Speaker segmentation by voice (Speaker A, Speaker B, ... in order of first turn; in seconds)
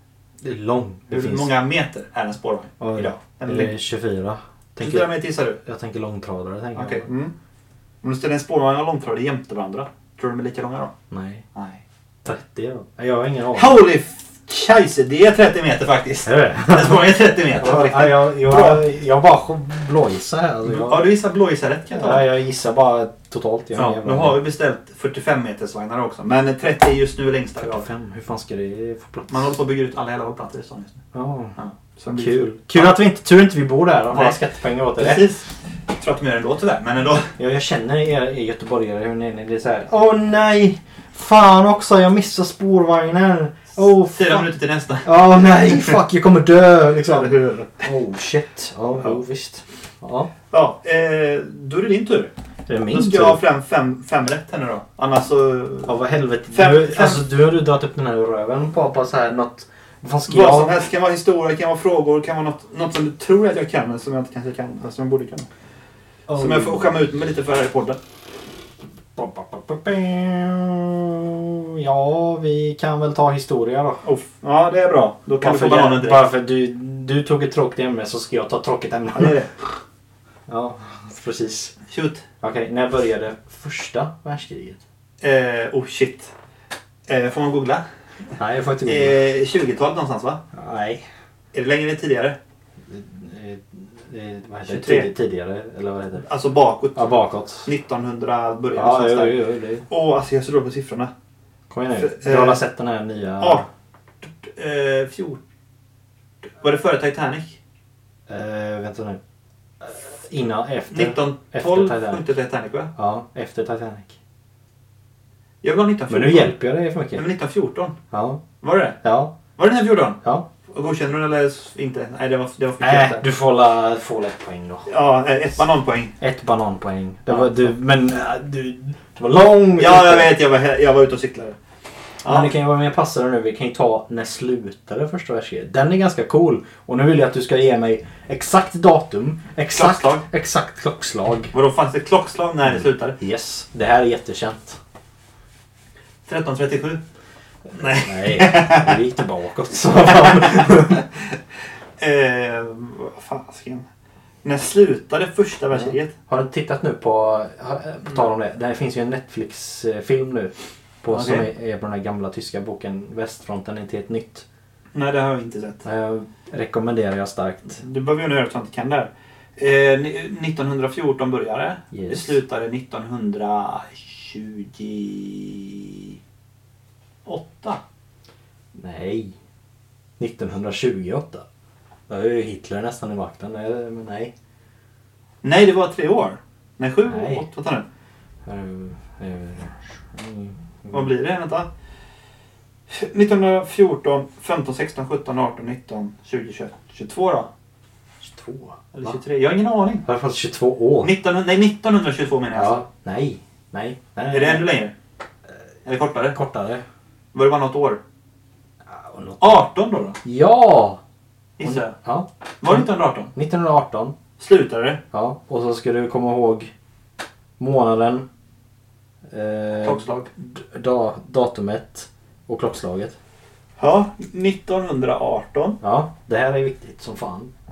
Speaker A: 0.4-1.5, 2.8-7.1, 11.1-11.4, 12.2-13.8, 16.3-21.1, 21.9-24.4, 27.6-29.5, 31.1-31.6, 32.1-35.3, 37.4-44.5, 45.0-50.3, 52.7-53.4, 55.9-60.7, 66.3-67.0, 69.2-74.0, 75.4-79.4, 80.5-81.8, 82.4-84.8, 88.4-89.2, 90.5-91.0, 92.9-96.3, 97.0-97.7, 98.7-99.9, 101.7-103.7, 108.3-109.2, 109.8-112.3, 113.0-114.2, 116.1-117.2, 118.1-118.4, 119.0-119.4, 122.8-124.9, 126.2-130.3, 132.2-141.5, 142.8-144.8, 147.8-151.0, 155.7-164.5, 165.8-167.8, 171.9-172.4, 178.8-179.3, 180.2-181.4, 182.1-184.3, 187.1-187.4, 188.5-191.1, 198.2-199.2, 200.1-201.1, 202.5-204.7, 206.3-206.8, 208.9-209.6, 210.2-211.0, 211.6-214.2, 215.1-216.7, 217.6-218.3, 219.3-223.2, 225.8-227.5
Speaker B: 1.1-3.7, 4.8-5.6, 6.8-7.3, 8.0-10.9, 11.6-11.8, 13.5-18.8, 20.6-22.3, 23.8-27.9, 29.3-31.0, 31.6-32.9, 34.1-34.4, 35.0-37.3, 44.1-45.9, 47.1-47.8, 50.5-52.3, 52.9-55.9, 56.5-57.2, 60.3-65.5, 66.4-68.0, 74.0-76.3, 79.1-79.5, 81.9-82.2, 85.2-86.3, 87.1-87.8, 88.8-90.4, 91.5-92.4, 94.7-95.1, 96.2-97.1, 97.6-99.4, 99.9-101.1, 102.0-102.6, 103.4-103.7, 104.2-105.4, 106.5-107.6, 110.9-112.9, 115.6-116.5, 117.1-118.0, 118.6-119.0, 119.6-123.2, 124.9-126.1, 129.8-131.6, 132.2-132.5, 139.7-140.2, 141.5-143.2, 146.3-147.0, 147.7-149.0, 150.0-151.2, 152.0-153.8, 154.4-156.1, 161.1-161.5, 164.9-165.9, 167.7-176.2, 177.3-177.8, 185.4-187.8, 190.9-191.7, 192.9-197.5, 198.9-200.1, 201.0-202.8, 204.3-204.9, 205.9-206.4, 207.3-208.0, 209.4-210.2, 211.6-212.0, 212.6-213.3, 214.4-215.0, 219.8-220.3, 223.8-225.8